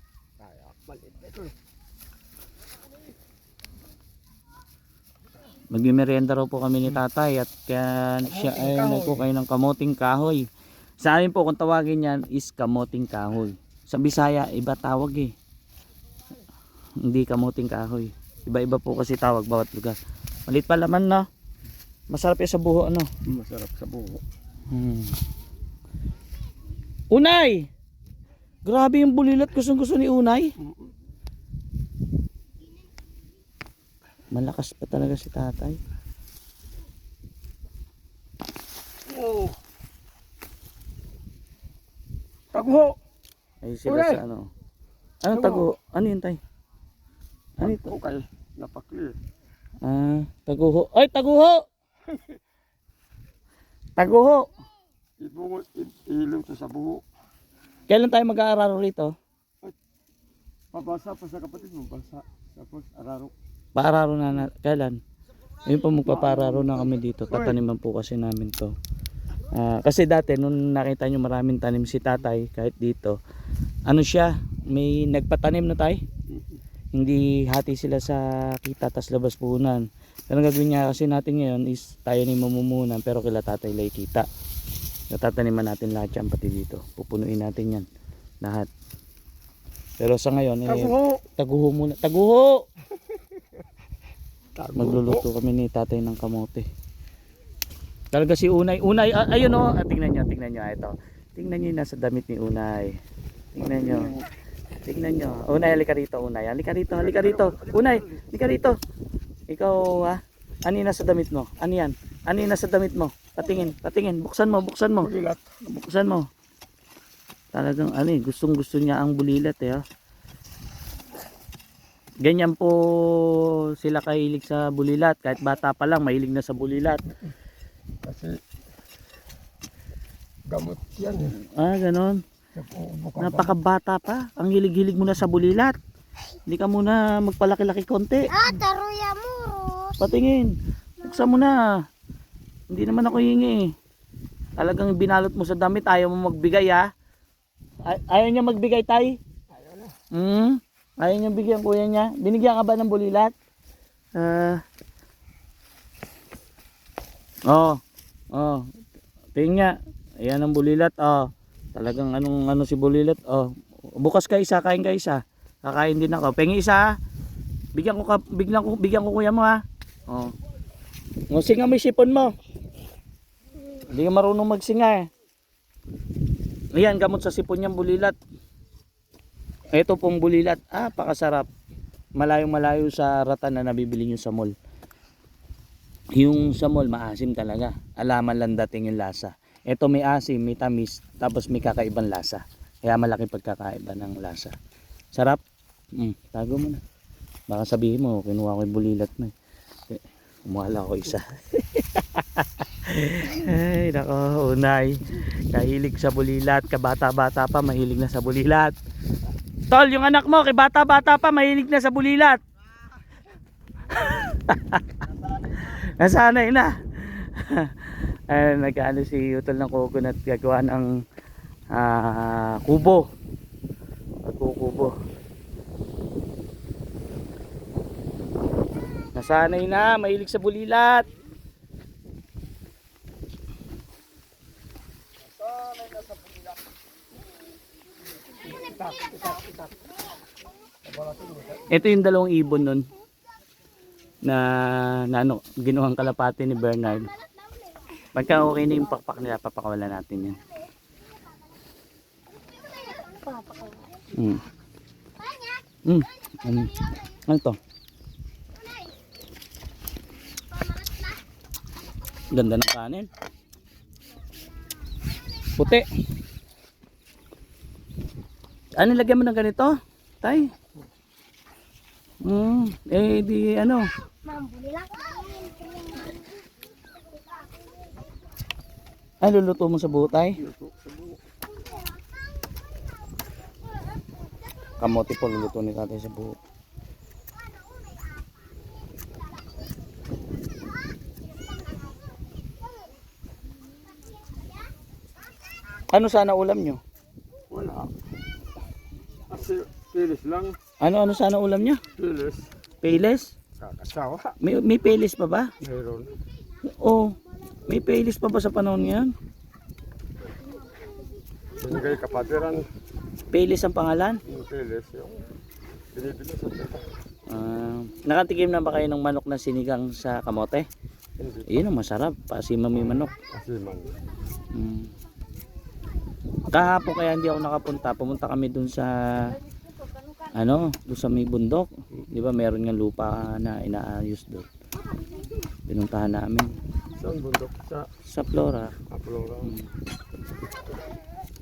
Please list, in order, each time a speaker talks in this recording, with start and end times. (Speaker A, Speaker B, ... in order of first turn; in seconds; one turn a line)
Speaker A: 0.4-1.5
Speaker B: 5.7-10.5
Speaker A: 8.3-9.2
Speaker B: 11.0-15.3
Speaker B: 17.0-21.3
Speaker B: 22.1-23.1
Speaker A: 23.2-24.2
Speaker B: 24.7-25.2
Speaker B: 27.1-27.7
Speaker B: 28.6-30.5
Speaker A: 30.6-30.9
Speaker B: 34.3-35.8
Speaker A: 39.1-39.6
Speaker A: 42.5-43.0
Speaker B: 43.6-44.5
Speaker A: 43.9-44.2
Speaker B: 45.2-46.4
Speaker A: 45.3-45.7
Speaker B: 47.6-47.9
Speaker A: 47.6-49.2
Speaker B: 49.8-51.6
Speaker A: 52.1-52.4
Speaker B: 54.0-54.5
Speaker A: 55.2-57.0
Speaker B: 57.9-59.1
Speaker A: 60.7-63.3
Speaker B: 63.8-65.0
Speaker B: 65.6-68.7
Speaker A: 66.1-67.5
Speaker B: 69.5-73.2
Speaker B: 73.9-76.0
Speaker A: 76.3-76.6
Speaker B: 76.9-84.2
Speaker B: 85.1-87.8
Speaker B: 88.4-88.7
Speaker B: 90.0-92.6
Speaker A: 90.7-91.2
Speaker A: 94.5-95.2
Speaker B: 94.8-96.7
Speaker B: 98.1-103.0
Speaker B: 103.5-104.2
Speaker A: 103.9-104.2
Speaker B: 104.8-108.7
Speaker A: 107.0-108.3
Speaker B: 109.5-115.1
Speaker A: 115.0-115.4
Speaker B: 115.6-116.3
Speaker B: 117.5-119.8
Speaker B: 122.2-127.1
Speaker A: 128.0-128.3
Speaker A: 130.5-131.3
Speaker B: 131.4-132.2
Speaker A: 132.5-133.5
Speaker B: 133.2-135.8
Speaker B: 136.5-138.3
Speaker C: 138.3-140.0
Speaker B: 140.0-141.6
Speaker B: 142.7-143.7
Speaker B: 144.6-146.8
Speaker B: 147.8-149.2
Speaker A: 149.5-149.9
Speaker B: 150.1-153.3
Speaker B: 154.2-154.6
Speaker B: 157.5-157.8
Speaker B: 158.3-158.6
Speaker B: 159.3-166.9
Speaker B: 167.8-170.3
Speaker B: 171.3-172.3
Speaker B: 173.8-175.1
Speaker B: 176.7-178.2
Speaker B: 179.7-181.4
Speaker B: 182.2-184.5
Speaker B: 186.1-194.5
Speaker B: 195.1-195.4
Speaker B: 195.9-196.8
Speaker B: 197.5-199.3
Speaker B: 199.9-208.7
Speaker B: 209.7-212.4
Speaker B: 213.9-214.8
Speaker B: 215.4-220.9
Speaker B: 221.7-223.0
Speaker B: 224.2-224.9
Speaker B: 229.1-231.1
Speaker A: 238.6-239.5
Speaker B: 241.7-242.8
Speaker B: 244.2-247.1
Speaker B: 248.1-250.4
Speaker C: 252.8-253.9
Speaker B: 254.1-254.4
Speaker C: 255.2-255.6
Speaker B: 255.8-257.6
Speaker C: 260.6-261.1
Speaker B: 262.3-263.1
Speaker B: 265.5-265.9
Speaker B: 268.8-270.5
Speaker B: 272.2-273.9
Speaker C: 274.2-276.2
Speaker B: 279.2-280.4
Speaker A: 280.4-281.2
Speaker B: 284.8-286.4
Speaker B: 295.9-296.8
Speaker A: 297.5-297.9
Speaker A: 299.3-300.6
Speaker B: 300.8-301.8
Speaker A: 301.9-302.5
Speaker B: 302.8-303.3
Speaker A: 303.6-304.4
Speaker B: 304.4-305.5
Speaker A: 305.6-306.1
Speaker B: 306.7-307.1
Speaker B: 307.7-309.1
Speaker A: 311.6-312.6
Speaker B: 313.3-314.2
Speaker A: 314.3-315.2
Speaker A: 315.9-316.9
Speaker B: 317.3-320.6
Speaker A: 321.2-321.6
Speaker B: 321.5-323.1
Speaker A: 323.2-323.9
Speaker B: 324.5-324.9
Speaker B: 326.5-329.4
Speaker B: 330.3-334.5
Speaker B: 335.7-336.6
Speaker A: 336.9-337.9
Speaker B: 338.0-338.7
Speaker A: 338.9-339.5